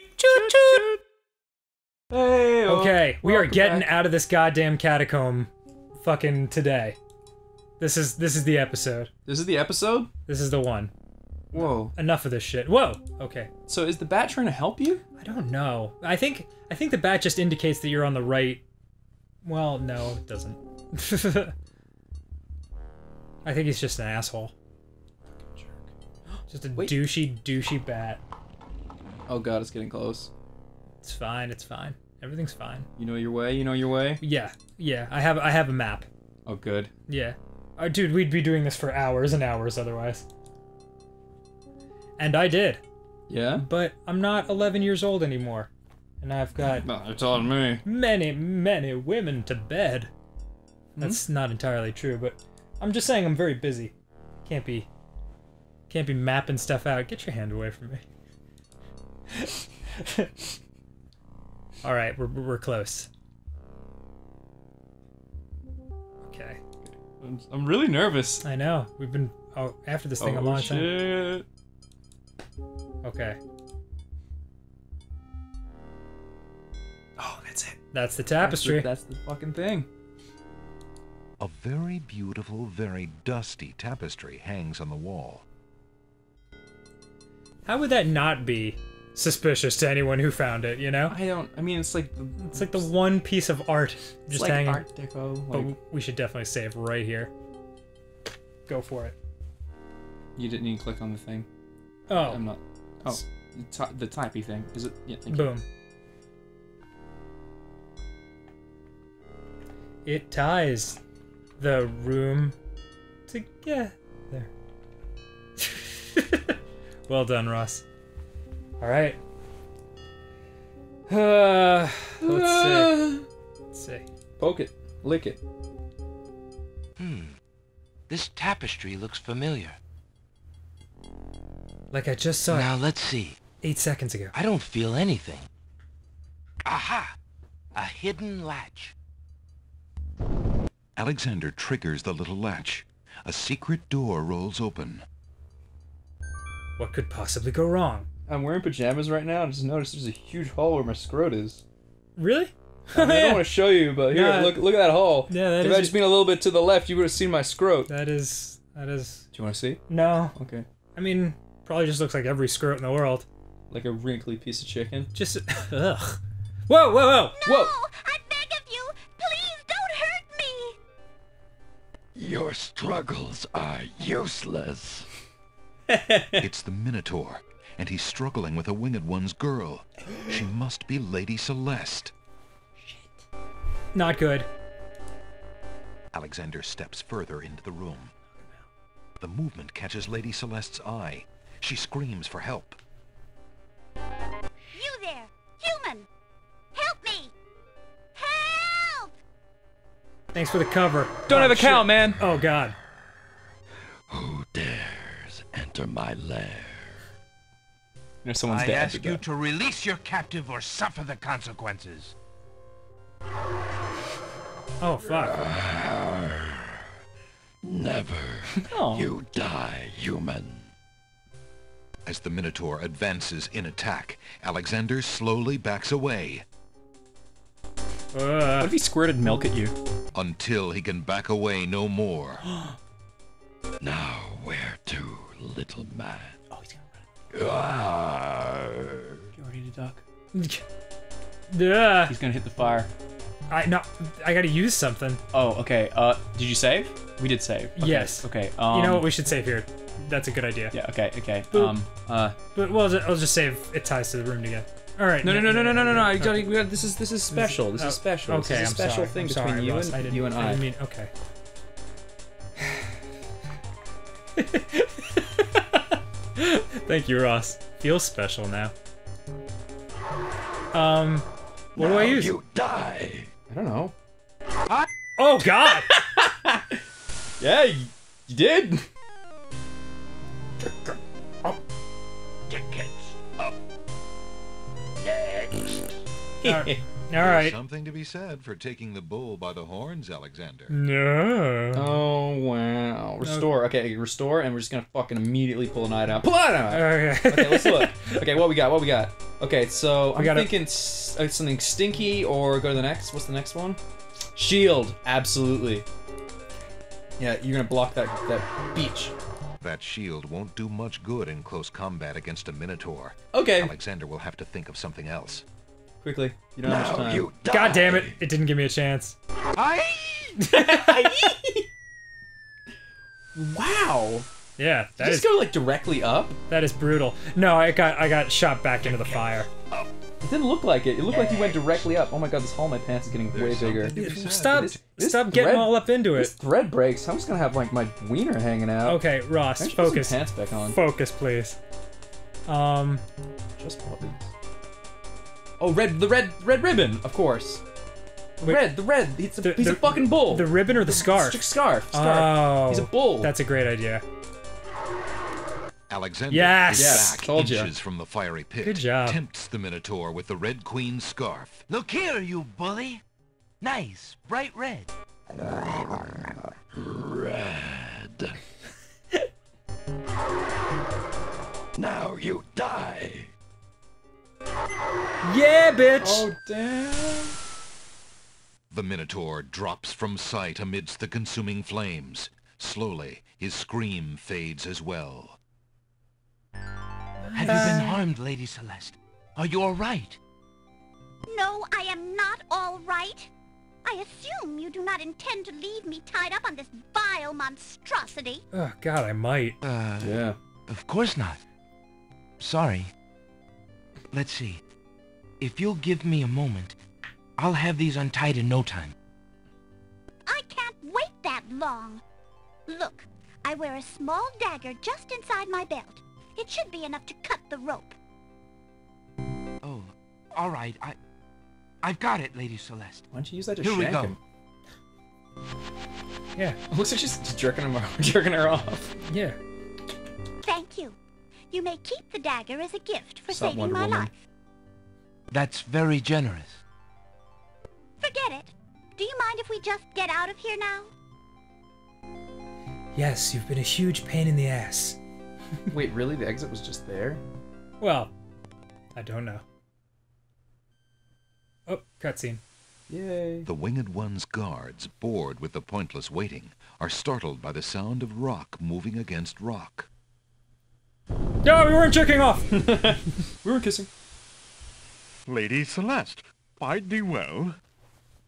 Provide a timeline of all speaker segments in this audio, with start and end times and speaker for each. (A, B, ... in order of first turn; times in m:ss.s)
0:00.2-0:00.9 A
0:02.1-0:03.9 A
0:02.7-0:07.0 B
0:07.8-0:09.1 B
0:09.2-0:10.1 A
0:10.2-0:10.9 B
0:11.5-0:12.0 A
0:11.5-0:13.5 B
0:13.7-0:15.0 A
0:15.2-0:18.6 B
0:19.4-0:21.5 B
0:23.4-0:24.5 B
0:25.4-0:25.8 A
0:26.5-0:28.2 B
0:26.7-0:27.1 A
0:29.3-0:30.3 A
0:31.0-0:32.9 B
0:33.0-0:34.2 A
0:34.2-0:36.1 B
0:36.4-0:36.9 A
0:37.1-0:40.2 B
0:42.2-0:42.8 B
0:43.3-0:43.6 A
0:43.5-0:45.7 B
0:46.2-0:46.9 B
0:46.6-0:47.8 A
0:47.7-0:50.1 B
0:51.0-0:53.9 B
0:54.4-0:54.9 B
0:55.9-0:58.0 B
0:59.4-1:00.3 B
1:01.8-1:03.1 B
1:06.2-1:06.6 B
1:07.2-1:08.4 A
1:08.4-1:10.9 B
1:10.2-1:11.4 A
1:13.0-1:13.4 B
1:17.2-1:17.8 A
1:17.9-1:18.9 B
1:18.4-1:19.9 A
1:21.4-1:25.4 C
1:27.6-1:31.2 B
1:31.1-1:32.9 A
1:32.4-1:34.9 B
1:34.3-1:35.8 A
1:35.5-1:37.3 B
1:38.7-1:39.1 B
1:40.4-1:41.5 A
1:42.1-1:42.4 B
1:42.2-1:45.6 A
1:45.3-1:45.6 B
1:50.0-1:51.0 B
1:51.6-1:52.6 B
1:53.3-1:54.5 B
1:55.6-1:56.5 B
1:57.1-1:57.8 B
1:58.8-1:59.2 B
2:01.1-2:03.1 B
2:02.2-2:03.2 A
2:03.7-2:04.1 B
2:04.4-2:05.4 A
2:07.0-2:07.4 D
2:08.1-2:09.8 D
2:11.9-2:12.7 B
2:12.5-2:13.4 D
2:13.6-2:14.3 B
2:14.3-2:15.5 D
2:16.6-2:17.2 D
2:17.7-2:18.9 D
2:21.0-2:25.0 C
2:26.8-2:28.1 B
2:28.3-2:31.6 A
2:32.2-2:33.5 B
2:32.9-2:37.9 A
2:34.0-2:34.6 B
2:35.2-2:36.0 B
2:37.9-2:39.3 B
2:39.3-2:39.8 A
2:39.9-2:40.4 B
2:40.3-2:40.6 A
2:40.9-2:43.2 B
2:43.7-2:45.1 A
2:45.1-2:47.3 B
2:47.4-2:50.8 E
2:47.4-2:47.7 A
2:52.2-2:55.1 F
2:55.9-2:56.4 A
2:56.4-3:02.1 C
3:03.9-3:04.5 B
3:06.1-3:08.1 C
3:09.2-3:12.8 C
3:14.7-3:16.1 E
3:16.7-3:17.3 E
3:18.2-3:19.1 E
3:20.3-3:22.8 B
3:21.3-3:22.2 A
3:24.1-3:27.0 F
3:28.2-3:29.2 A
3:28.5-3:32.1 D
3:34.8-3:35.4 B
3:35.2-3:36.7 F
3:37.6-3:40.7 F
3:38.5-3:39.1 A
3:42.0-3:46.4 C
3:48.1-3:48.7 B
3:48.6-3:49.7 A
3:50.1-3:52.4 C
3:53.8-3:56.4 F
3:56.5-3:56.9 A
3:57.3-3:59.1 F
3:59.4-4:00.0 A
4:00.3-4:00.6 B
4:01.5-4:02.1 B
4:02.0-4:02.9 A
4:03.5-4:05.2 B
4:05.3-4:09.0 A
4:07.8-4:10.8 B
4:10.7-4:12.4 A
4:12.4-4:16.5 B
4:15.2-4:20.6 A
4:17.3-4:21.1 B
4:24.4-4:25.8 B
4:26.4-4:28.7 B
4:30.7-4:32.4 B
4:31.8-4:33.3 F
4:33.5-4:33.9 A
4:35.2-4:35.9 B
4:35.6-4:36.8 A
4:37.4-4:38.8 A
4:40.6-4:41.6 A
4:46.4-4:46.8 A
4:46.4-4:47.6 B
4:47.2-4:50.7 C
4:50.7-4:51.9 B
4:51.7-5:03.8 A
4:53.2-4:53.5 B
4:56.7-4:58.2 B
5:00.1-5:00.5 B
5:04.4-5:05.8 A
5:07.2-5:09.1 A
5:09.6-5:15.4 C
5:13.3-5:13.7 A
5:16.0-5:17.3 A
5:16.6-5:18.1 F
5:17.5-5:19.2 B
5:19.6-5:20.4 D
5:20.4-5:21.6 A
5:20.5-5:21.2 B
5:23.3-5:24.2 A
5:24.6-5:25.3 B
5:25.0-5:26.4 A
5:26.5-5:29.5 B
5:30.2-5:40.8 A
5:33.3-5:34.7 C
5:33.9-5:36.3 B
5:38.8-5:41.6 B
5:42.4-5:43.0 B
5:43.6-5:44.3 A
5:45.6-5:47.6 A
5:48.4-5:53.3 A
5:48.4-5:48.7 B
5:49.4-5:54.0 B
5:55.9-6:01.6 C
5:56.3-5:57.2 B
5:56.7-5:57.7 A
5:58.6-5:59.2 B
6:01.7-6:03.0 D
6:03.6-6:04.9 D
6:05.4-6:08.3 F
6:11.8-6:13.3 F
6:15.2-6:16.3 B
6:16.0-6:17.3 A
6:18.7-6:25.4 C
6:27.3-6:28.0 B
6:27.3-6:30.2 D
6:31.3-6:33.3 E
6:33.8-6:38.4 E
6:38.5-6:39.6 B
6:39.6-6:41.4 D
6:40.0-6:40.4 A
6:42.4-6:42.9 D
6:44.1-6:44.6 D
6:45.4-6:46.7 D
6:47.4-6:48.9 D
6:50.2-6:52.0 E
6:52.7-6:57.9 E
6:59.6-7:01.0 D
7:01.8-7:03.0 D
7:03.1-7:04.2 A
7:03.6-7:04.2 D
7:06.7-7:08.9 A
7:09.0-7:09.4 B
7:10.4-7:11.0 E
7:11.5-7:14.1 E
7:13.3-7:14.1 A
7:15.3-7:16.6 D
7:18.0-7:20.9 E
7:22.9-7:25.0 B
7:25.7-7:27.2 A
7:27.8-7:28.1 B
7:28.9-7:29.4 B
7:31.7-7:32.4 B
7:32.9-7:33.5 A
7:33.4-7:39.9 C
7:41.4-7:43.1 B
7:42.8-7:43.9 A
7:45.3-7:47.5 G